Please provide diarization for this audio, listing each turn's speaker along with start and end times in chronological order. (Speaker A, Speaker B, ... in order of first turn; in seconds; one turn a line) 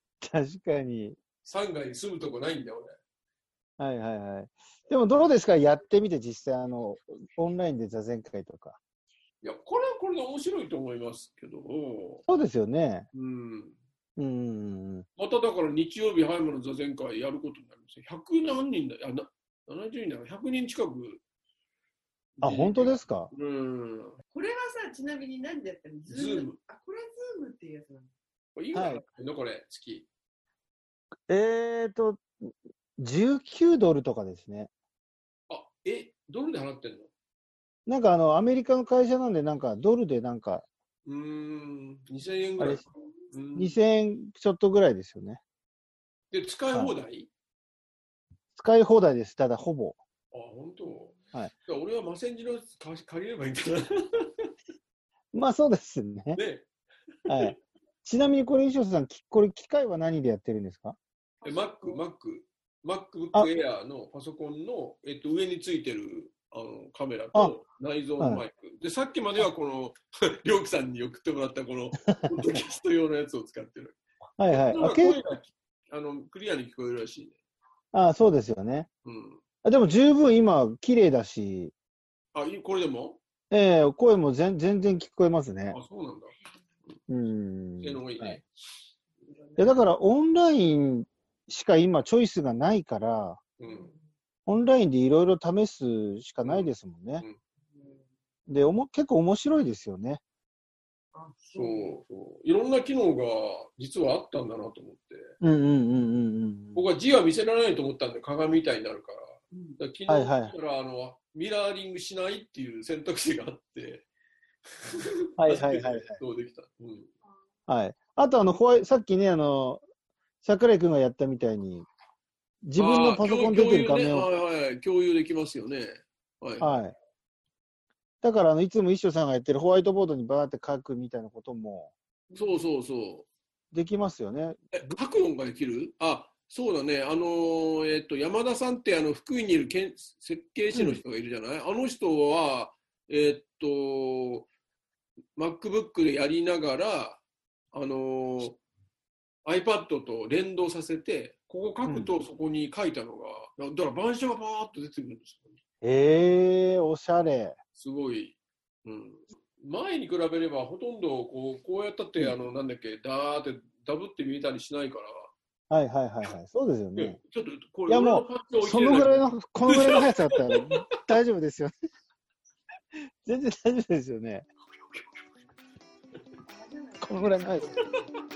Speaker A: 0.2-1.2
Speaker B: 1.4-2.9
Speaker A: 3.8-8.8
Speaker B: 9.4-12.2
Speaker A: 12.3-13.1
Speaker B: 13.1-13.8
Speaker A: 14.2-15.1
Speaker B: 15.2-21.2
Speaker B: 22.4-24.2
Speaker A: 22.4-23.3
Speaker C: 24.3-28.1
Speaker B: 26.1-26.6
Speaker B: 28.5-30.1
Speaker A: 28.7-29.0
Speaker A: 31.3-34.7
Speaker B: 35.5-37.1
Speaker A: 37.9-40.6
Speaker B: 41.0-43.8
Speaker A: 42.6-42.8
Speaker A: 43.5-45.4
Speaker B: 46.3-47.3
Speaker A: 48.5-50.0
Speaker B: 50.3-54.5
Speaker A: 55.3-56.4
Speaker B: 56.3-56.7
Speaker A: 57.3-61.0
Speaker B: 61.4-74.0
Speaker A: 68.2-68.4
Speaker A: 74.4-75.2
Speaker B: 74.5-77.3
Speaker A: 77.9-78.9
Speaker B: 79.0-79.4
Speaker A: 79.6-81.7
Speaker B: 82.3-83.2
Speaker A: 83.5-85.8
Speaker B: 85.7-86.9
Speaker A: 87.1-88.4
Speaker B: 87.8-88.5
Speaker A: 89.6-93.4
Speaker B: 93.6-93.9
Speaker C: 93.7-94.0
Speaker A: 94.5-97.2
Speaker B: 96.4-97.4
Speaker C: 97.7-98.0
Speaker A: 98.5-100.2
Speaker C: 101.1-101.9
Speaker B: 101.5-105.2
Speaker A: 105.4-106.9
Speaker B: 106.7-114.0
Speaker A: 110.1-110.5
Speaker B: 114.8-117.1
Speaker A: 115.4-116.2
Speaker A: 117.7-119.8
Speaker A: 120.4-121.8
Speaker A: 122.6-124.3
Speaker B: 122.8-126.8
Speaker A: 126.6-127.0
Speaker A: 128.2-131.9
Speaker B: 132.3-133.3
Speaker A: 133.7-134.9
Speaker B: 134.7-144.5
Speaker A: 140.7-141.0
Speaker B: 145.3-147.2
Speaker B: 147.7-148.6
Speaker B: 149.4-155.6
Speaker A: 151.8-152.1
Speaker A: 155.8-157.6
Speaker B: 157.7-165.3
Speaker A: 165.7-167.2
Speaker B: 166.9-170.7
Speaker A: 167.9-171.7
Speaker A: 173.2-174.5
Speaker B: 174.7-175.2
Speaker C: 176.4-178.0
Speaker A: 177.0-177.8